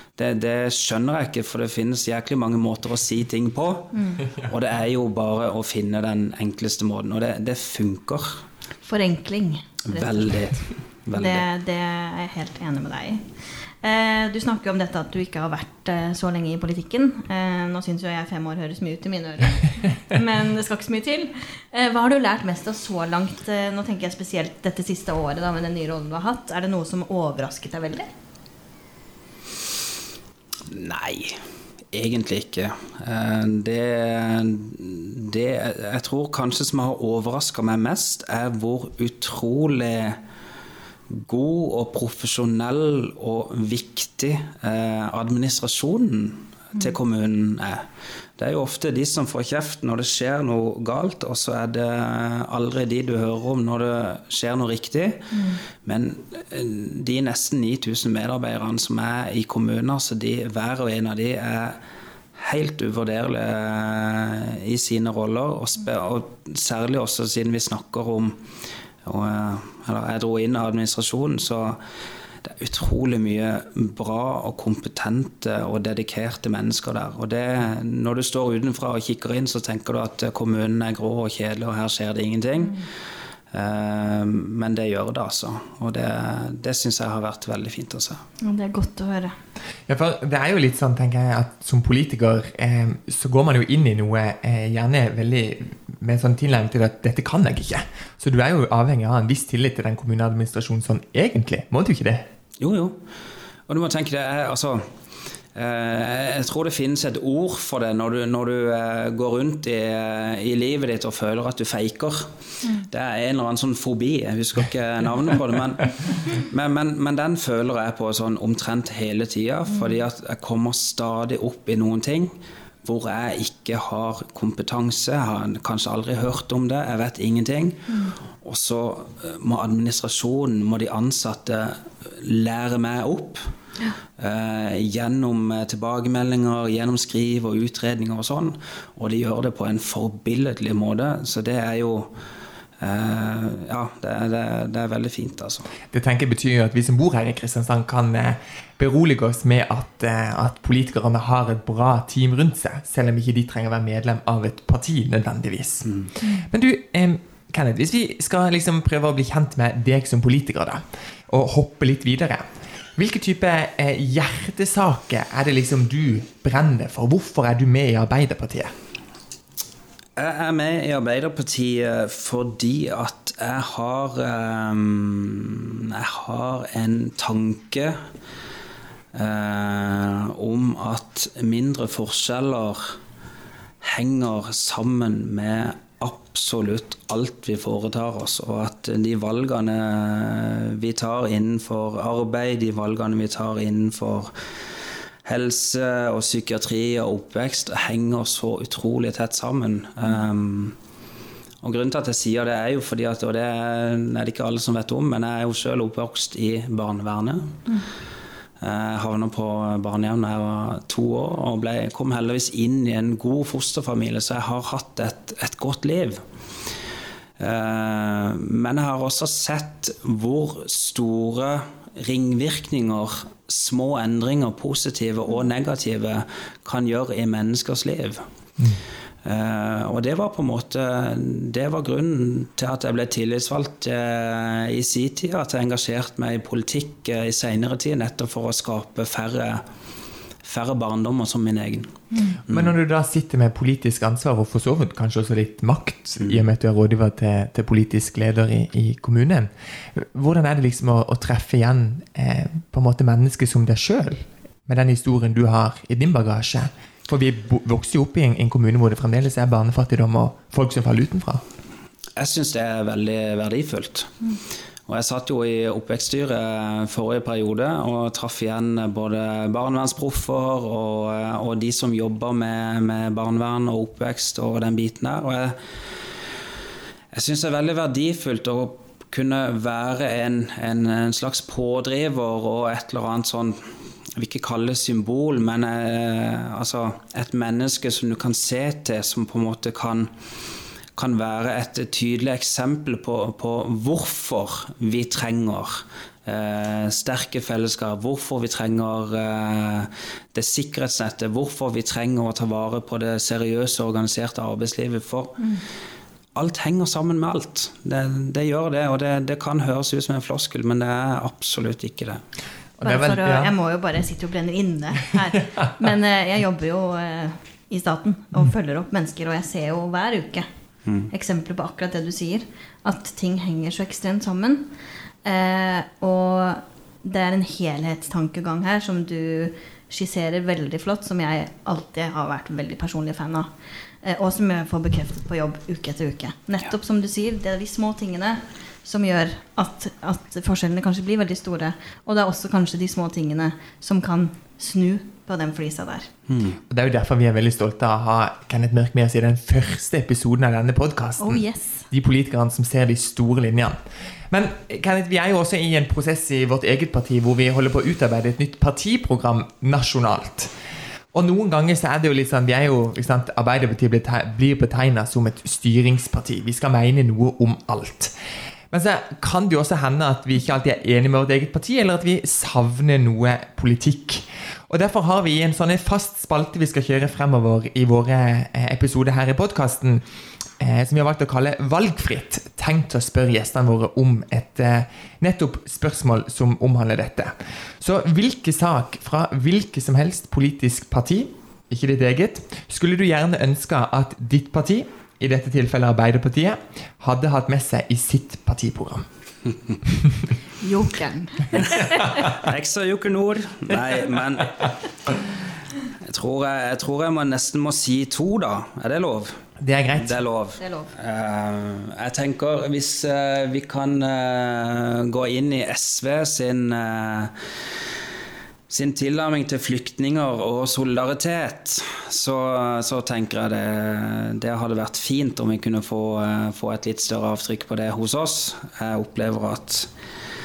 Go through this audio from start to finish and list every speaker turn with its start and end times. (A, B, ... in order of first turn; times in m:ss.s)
0:00.2-0:08.4 A
0:04.0-0:04.2 B
0:08.8-0:10.5 B
0:09.9-0:11.4 A
0:11.1-0:13.3 B
0:13.8-0:28.1 B
0:30.7-0:31.4 A
0:31.9-0:40.2 A
0:41.1-0:47.8 A
0:48.4-1:01.8 A
1:02.4-1:08.4 A
1:09.0-1:11.8 A
1:12.4-1:22.8 A
1:23.5-1:28.2 A
1:28.4-1:29.3 B
1:29.9-1:42.2 C
1:42.6-1:43.0 A
1:43.7-1:44.8 A
1:45.5-1:52.3 A
1:52.9-2:02.3 A
2:02.8-2:07.8 A
2:07.9-2:08.1 B
2:08.4-2:13.4 A
2:14.2-2:22.1 A
2:22.8-2:25.7 A
2:25.9-2:48.7 C
2:36.2-2:36.5 B
2:50.2-2:58.0 A
2:59.1-3:03.0 A
3:03.8-3:14.3 A
3:15.2-3:20.7 A
3:21.6-3:27.6 A
3:28.6-3:36.2 A
3:37.4-3:48.2 A
3:49.2-3:59.6 A
4:00.4-4:01.9 A
4:02.1-4:02.4 B
4:02.5-4:02.7 A
4:02.5-4:21.4 C
4:22.2-4:24.1 A
4:24.9-4:35.6 A
4:37.1-4:43.6 A
4:44.2-4:50.1 A
4:50.9-5:05.4 A
5:06.3-5:12.2 A
5:12.8-5:13.5 C
5:12.8-5:20.4 B
5:20.8-5:21.1 A
5:21.1-5:24.7 B
5:25.2-5:33.5 B
5:34.0-5:46.1 B
5:46.3-5:46.6 A
5:46.7-5:53.8 C
5:51.2-5:51.8 B
5:54.3-6:00.5 C
6:01.1-6:08.1 C
6:08.7-6:20.0 C
6:20.6-6:39.0 C
6:40.6-6:42.2 B
6:42.3-6:44.7 A
6:46.0-6:49.4 A
6:49.6-6:50.2 C
6:49.9-6:57.3 A
6:50.6-6:50.9 B
6:58.7-7:09.9 A